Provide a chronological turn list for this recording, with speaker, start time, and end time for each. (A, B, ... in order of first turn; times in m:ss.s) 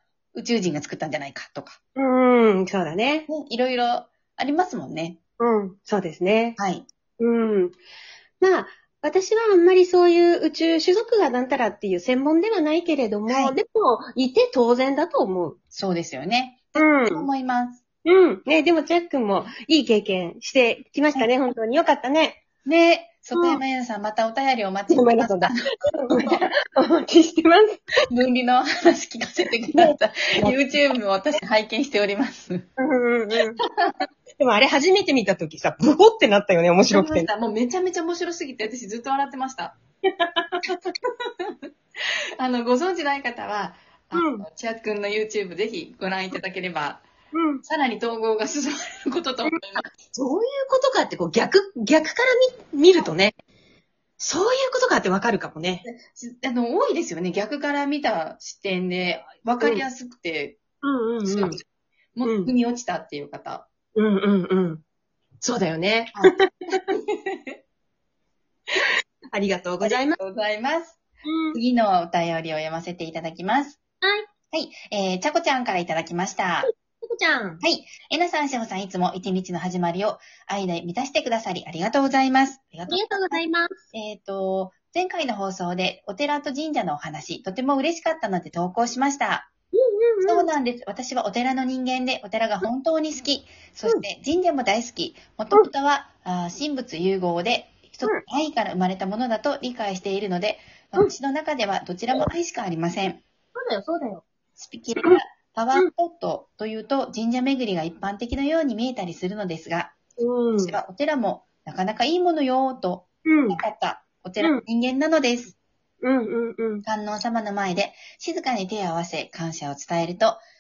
0:00.3-0:01.8 A
0:02.0-0:03.3 B
0:03.3-0:05.2 A
0:05.4-0:06.6 B
0:06.6-0:06.8 A
0:07.2-0:07.8 B
0:08.4-0:15.6 B
0:13.3-0:13.5 A
0:15.7-0:17.8 A
0:16.8-0:17.3 B
0:18.0-0:22.4 B
0:22.6-0:26.5 A
0:23.4-0:23.6 B
0:24.9-0:27.8 B
0:28.1-0:32.6 A
0:29.7-0:30.7 B
0:32.8-0:33.6 B
0:33.6-0:33.9 A
0:34.4-0:37.3 B
0:36.9-0:39.8 A
0:40.6-0:41.5 A
0:42.4-0:47.0 A
0:44.2-0:44.4 B
0:47.3-0:47.6 B
0:47.6-0:49.9 A
0:49.5-0:53.4 B
0:54.2-0:55.8 B
0:55.8-1:00.6 A
1:00.8-1:01.6 B
1:01.2-1:01.6 A
1:02.1-1:03.7 A
1:02.2-1:02.5 B
1:03.9-1:04.8 B
1:05.4-1:06.8 B
1:06.1-1:07.6 A
1:08.8-1:10.2 B
1:09.8-1:11.0 A
1:11.2-1:11.6 B
1:11.5-1:13.8 A
1:14.0-1:14.3 B
1:14.5-1:16.7 A
1:16.6-1:17.6 B
1:17.6-1:23.4 A
1:22.9-1:23.8 B
1:23.9-1:29.5 A
1:29.7-1:30.5 B
1:30.2-1:43.2 A
1:43.6-1:44.2 B
1:44.6-1:49.9 A
1:50.2-1:50.8 B
1:50.6-1:55.5 A
1:53.2-1:53.6 B
1:56.0-1:56.8 B
1:56.8-2:00.4 A